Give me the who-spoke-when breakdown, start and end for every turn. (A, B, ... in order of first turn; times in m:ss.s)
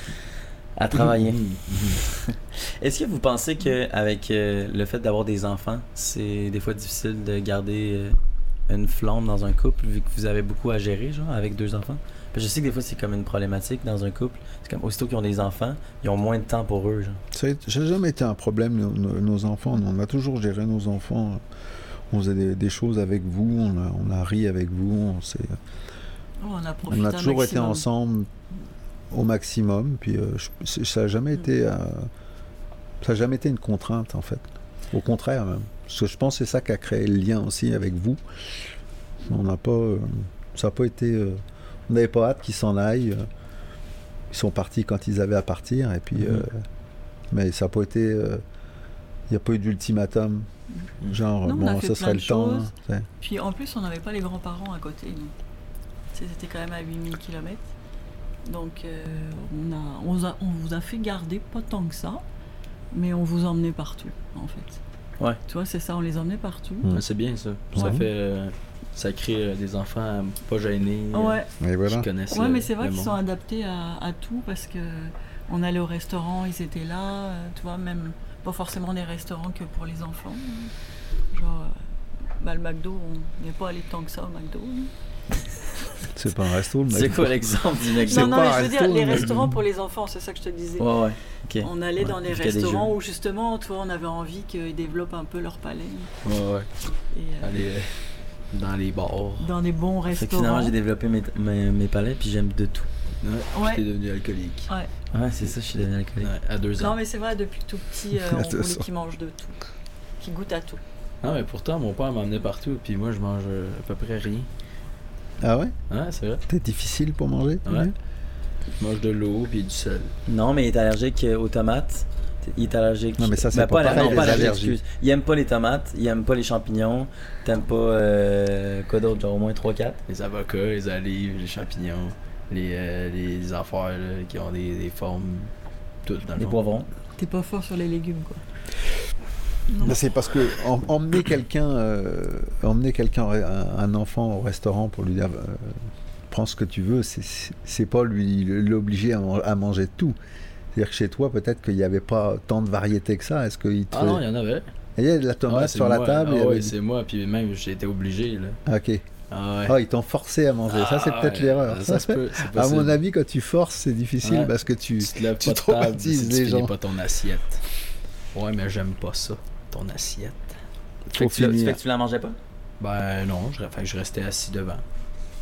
0:00.8-0:01.4 A
0:00.9-0:02.0 B
0:02.0-0:08.2 A
0:08.7-0:17.2 A
0:17.3-0:21.4 C
0:22.1-0:25.6 C
0:26.4-0:27.8 D
0:26.9-0:28.3 C
0:29.1-0:32.1 C
0:33.0-0:38.2 C
0:39.2-0:43.2 C
0:44.3-0:46.6 C
0:46.2-0:46.4 B
0:47.3-0:48.4 C
0:49.3-0:50.5 C
0:51.1-0:53.1 C
0:51.4-0:55.3 D
0:56.1-0:57.6 D
0:58.4-1:02.2 D
1:02.9-1:04.8 D
1:05.4-1:06.9 D
1:06.9-1:13.2 B
1:07.7-1:08.0 C
1:07.8-1:08.0 D
1:11.1-1:11.5 D
1:11.6-1:12.1 C
1:12.3-1:20.7 D
1:21.3-1:21.8 D
1:22.4-1:24.9 D
1:26.1-1:29.5 C
1:26.9-1:28.5 A
1:28.0-1:30.9 D
1:30.8-1:32.9 A
1:31.6-1:36.1 D
1:36.2-1:36.7 B
1:37.1-1:37.6 D
1:37.4-1:37.9 B
1:38.5-1:39.5 B
1:39.4-1:40.7 D
1:40.1-1:42.9 A
1:43.2-1:44.7 B
1:43.5-1:43.8 D
1:45.1-1:46.3 A
1:46.2-1:47.0 B
1:46.8-1:49.6 D
1:48.1-1:48.9 C
1:50.2-1:50.8 D
1:51.2-1:54.5 B
1:55.4-1:55.7 C
1:55.9-1:56.4 B
1:56.5-1:57.9 C
1:58.8-2:00.1 B
2:00.3-2:10.0 A
2:03.2-2:04.8 C
2:03.8-2:04.5 B
2:10.1-2:15.5 B
2:16.0-2:16.6 B
2:16.4-2:16.9 A
2:17.2-2:18.4 D
2:19.7-2:20.0 D
2:19.8-2:25.8 C
2:26.3-2:30.2 C
2:30.7-2:34.2 C
2:33.9-2:34.7 B
2:35.0-2:36.7 C
2:35.5-2:38.6 B
2:38.6-2:39.0 C
2:39.3-2:39.8 B
2:39.6-2:46.7 C
2:40.7-2:43.0 B
2:44.2-2:47.6 B
2:48.3-2:50.6 B
2:51.1-2:51.8 C
2:51.1-2:52.4 A
2:52.8-2:54.8 B